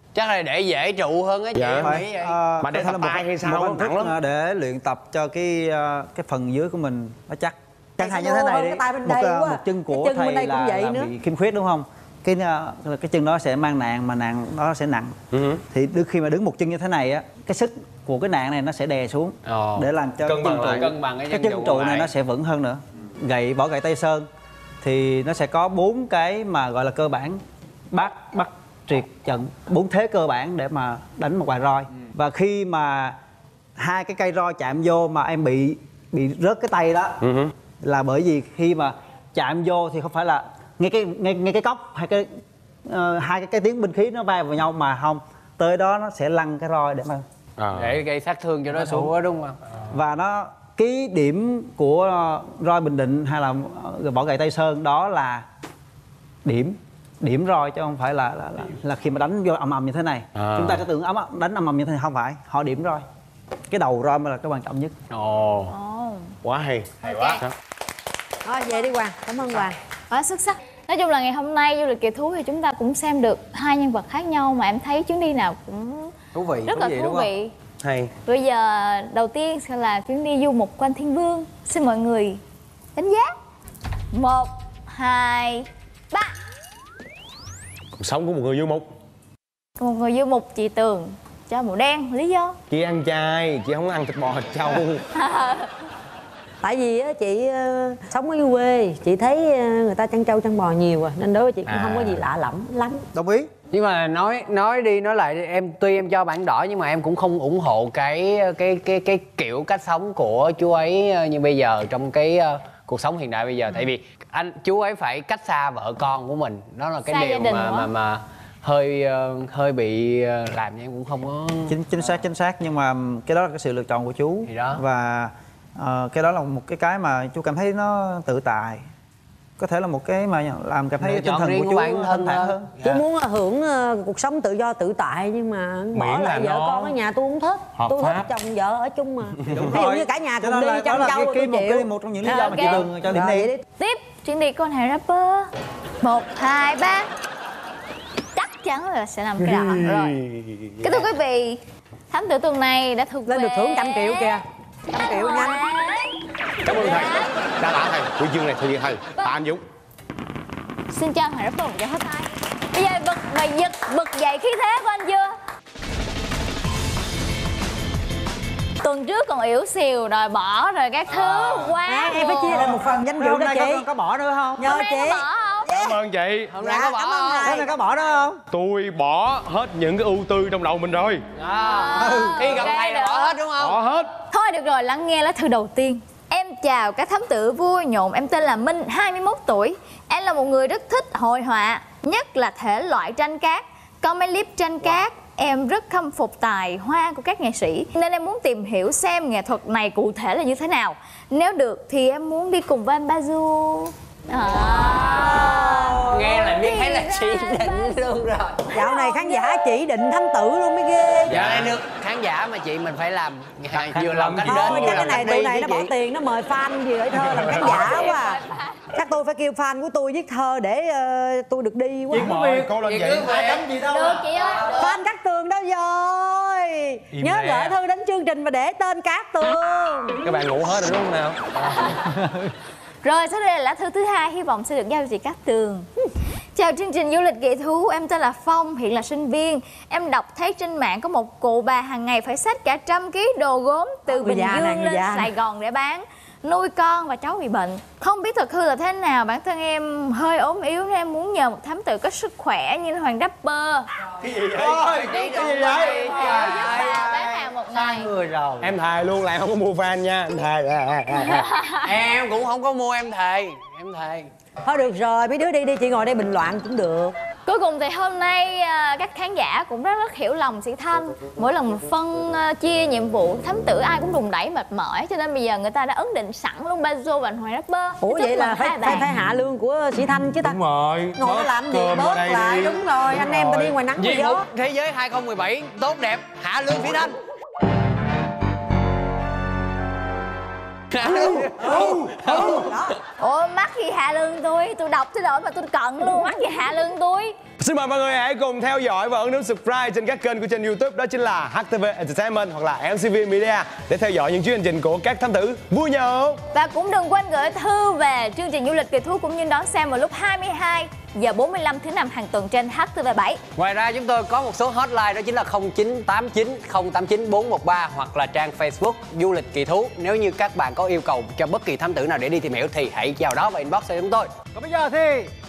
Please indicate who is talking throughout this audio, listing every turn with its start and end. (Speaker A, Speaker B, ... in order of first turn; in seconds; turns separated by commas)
Speaker A: 0.1-2.4, Speaker B: 1.5-2.0, Speaker C: 1.8-15.2, Speaker B: 2.6-4.1, Speaker D: 8.0-11.1, Speaker B: 15.3-15.6, Speaker C: 15.7-24.3, Speaker A: 19.4-22.1, Speaker B: 20.2-20.8, Speaker C: 24.8-33.2, Speaker C: 33.8-37.2, Speaker B: 37.2-37.5, Speaker C: 37.8-42.3, Speaker C: 42.9-47.2, Speaker B: 47.6-48.0, Speaker A: 47.7-49.6, Speaker C: 48.7-49.1, Speaker C: 49.9-55.5, Speaker C: 56.4-63.0, Speaker B: 60.4-60.8, Speaker C: 63.7-64.9, Speaker A: 65.1-65.7, Speaker E: 65.7-66.3, Speaker B: 66.4-67.5, Speaker E: 67.0-67.4, Speaker D: 68.4-69.8, Speaker E: 70.1-77.5, Speaker A: 76.3-77.3, Speaker B: 77.8-78.1, Speaker E: 78.2-82.4, Speaker E: 82.9-83.3, Speaker E: 84.1-86.3, Speaker B: 88.0-88.8, Speaker E: 89.8-92.6, Speaker B: 92.7-95.0, Speaker E: 95.1-95.7, Speaker D: 96.6-103.0, Speaker B: 101.7-102.2, Speaker C: 103.1-103.5, Speaker A: 103.7-121.8, Speaker E: 117.1-117.9, Speaker C: 121.7-128.8, Speaker A: 124.5-124.8, Speaker C: 129.6-132.7, Speaker A: 131.0-133.0, Speaker D: 132.8-143.6, Speaker B: 135.9-136.9, Speaker B: 137.8-138.3, Speaker C: 139.5-143.5, Speaker E: 142.2-142.8, Speaker E: 143.8-147.1, Speaker E: 148.3-150.2, Speaker B: 149.4-151.1, Speaker E: 150.8-154.4, Speaker D: 153.3-155.6, Speaker E: 154.9-157.3, Speaker B: 156.6-159.6, Speaker E: 160.9-165.3, Speaker E: 168.8-172.7, Speaker A: 171.1-171.8, Speaker D: 171.8-173.9, Speaker C: 172.5-174.7, Speaker D: 174.6-176.0, Speaker E: 174.6-175.8, Speaker B: 175.7-176.5, Speaker A: 176.5-177.6, Speaker D: 176.6-177.7, Speaker C: 177.4-178.4, Speaker B: 178.5-181.2, Speaker A: 181.4-183.8, Speaker E: 181.6-183.4, Speaker C: 182.0-182.4, Speaker B: 183.6-184.1, Speaker E: 184.3-207.9, Speaker A: 204.6-208.7, Speaker D: 205.4-205.9, Speaker E: 208.7-209.7, Speaker D: 208.7-211.5, Speaker A: 211.2-215.9, Speaker B: 211.4-211.7, Speaker B: 213.7-215.0, Speaker D: 214.4-222.4, Speaker B: 217.2-217.7, Speaker E: 217.6-218.9, Speaker B: 222.1-223.7, Speaker C: 222.2-222.6, Speaker A: 222.4-224.2, Speaker E: 223.9-225.0, Speaker D: 224.7-230.2, Speaker A: 227.2-227.8, Speaker B: 230.2-231.4, Speaker E: 231.6-232.1, Speaker C: 232.1-232.5, Speaker E: 233.0-235.9, Speaker E: 236.5-253.9, Speaker D: 244.1-245.3, Speaker B: 254.2-256.4, Speaker A: 254.5-257.5, Speaker E: 255.0-258.1, Speaker B: 258.1-261.4, Speaker A: 258.1-258.7, Speaker E: 261.1-261.9, Speaker A: 261.8-264.3, Speaker D: 264.6-267.1, Speaker E: 267.4-279.1, Speaker D: 278.0-280.6, Speaker B: 280.4-283.7, Speaker D: 281.1-284.5, Speaker A: 283.2-287.1, Speaker A: 290.9-292.6, Speaker B: 291.3-292.7, Speaker D: 292.3-292.9, Speaker E: 293.2-297.4, Speaker B: 297.6-306.4, Speaker E: 306.5-313.4, Speaker A: 313.6-324.5